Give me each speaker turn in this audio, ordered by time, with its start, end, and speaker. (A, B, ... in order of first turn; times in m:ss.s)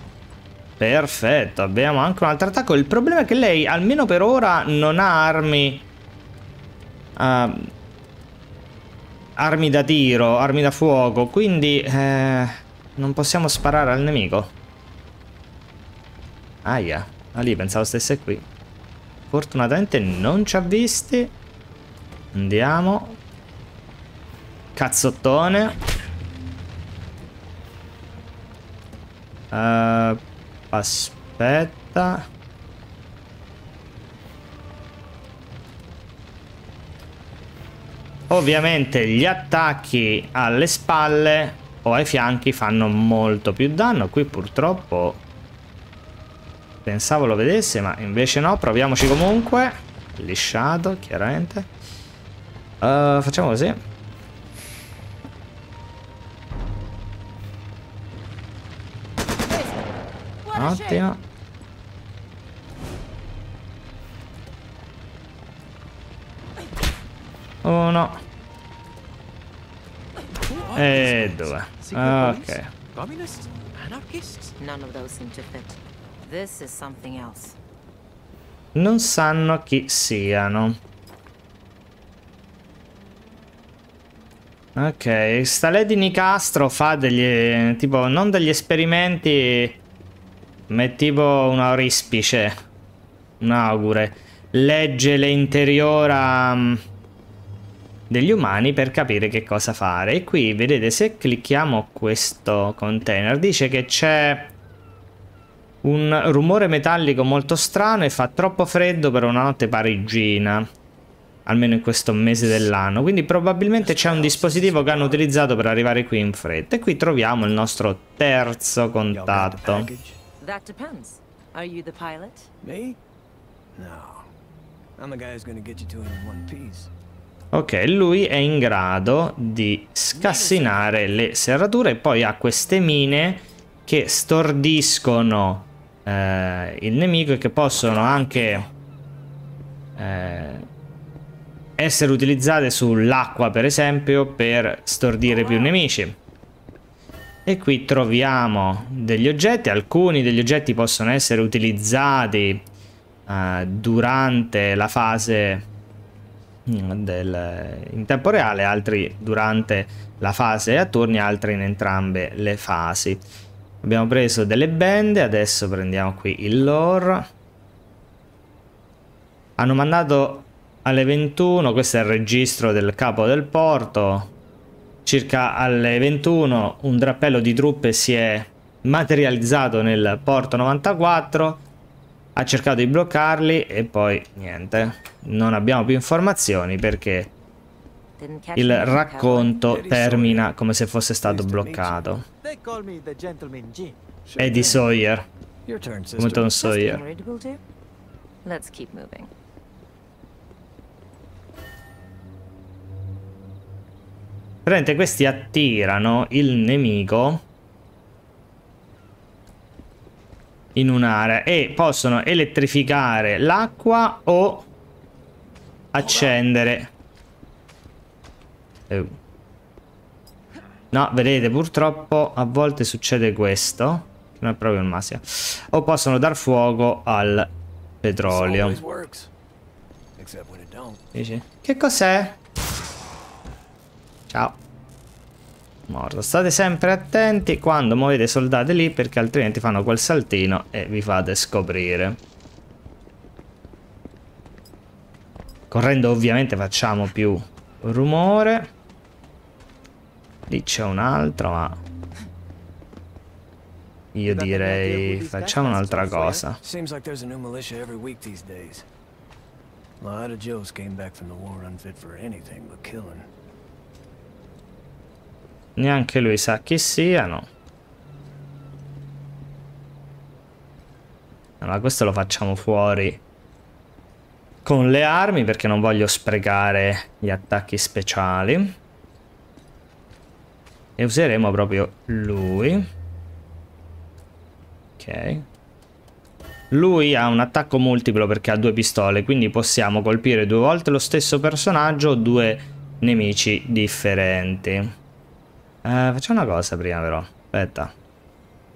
0:00.8-0:05.8 A
0:07.2-0:07.7 A
0:09.4-0:14.5 A
0:16.6-0:18.4 A
0:19.3-0:21.3 A
0:22.3-0:23.2 A
0:24.8-0:25.8 A
0:29.5-0:32.3 A
0:38.3-0:45.2 A
0:46.8-0:51.7 A
0:52.8-0:53.8 A
0:59.4-1:01.0 B
1:00.5-1:01.2 A
1:07.6-1:08.2 A
1:10.3-1:14.5 C
1:10.7-1:12.7 A
1:14.6-1:17.6 B
1:18.7-1:20.8 A
1:24.8-1:29.8 A
1:30.7-1:32.6 A
1:33.4-1:36.8 A
1:38.1-1:44.5 A
1:45.8-1:50.7 A
1:51.4-1:59.9 A
1:53.8-1:55.3 D
1:59.1-2:00.2 D
2:00.4-2:02.5 B
2:02.6-2:03.0 D
2:03.7-2:04.3 D
2:05.0-2:06.9 D
2:07.5-2:18.7 A
2:10.1-2:10.9 D
2:17.8-2:18.7 D
2:20.0-2:20.6 A
2:21.8-2:26.2 A
2:27.4-2:32.6 A
2:33.3-2:35.6 A
2:36.6-2:43.2 A
2:43.8-2:47.3 A
2:49.6-2:54.3 A
2:55.0-3:01.6 A
3:02.4-3:07.3 A
3:08.2-3:09.7 B
3:08.6-3:12.2 A
3:09.7-3:10.5 D
3:11.2-3:12.0 D
3:12.4-3:14.0 C
3:14.2-3:14.8 D
3:14.4-3:15.3 A
3:15.6-3:16.6 D
3:16.2-3:17.0 A
3:16.5-3:17.6 B
3:18.4-3:19.3 B
3:24.6-3:27.4 A
3:30.8-3:34.7 A
3:35.9-3:36.9 A
3:36.0-3:36.3 D
3:38.9-3:39.2 A
3:40.9-3:47.5 A
3:48.0-3:48.8 A
3:48.2-3:49.3 D
3:50.2-3:51.0 D
3:51.1-3:52.4 A
3:54.3-3:54.6 A
3:55.9-4:02.2 A
4:05.7-4:08.7 A
4:10.5-4:11.8 A
4:14.1-4:16.6 A
4:14.3-4:16.4 C
4:16.6-4:18.8 D
4:20.0-4:23.3 D
4:25.8-4:27.5 A
4:31.6-4:33.2 A
4:34.6-4:38.8 A
4:41.0-4:42.9 A
4:45.0-4:45.4 A
4:46.7-4:54.9 A
4:55.8-4:57.9 A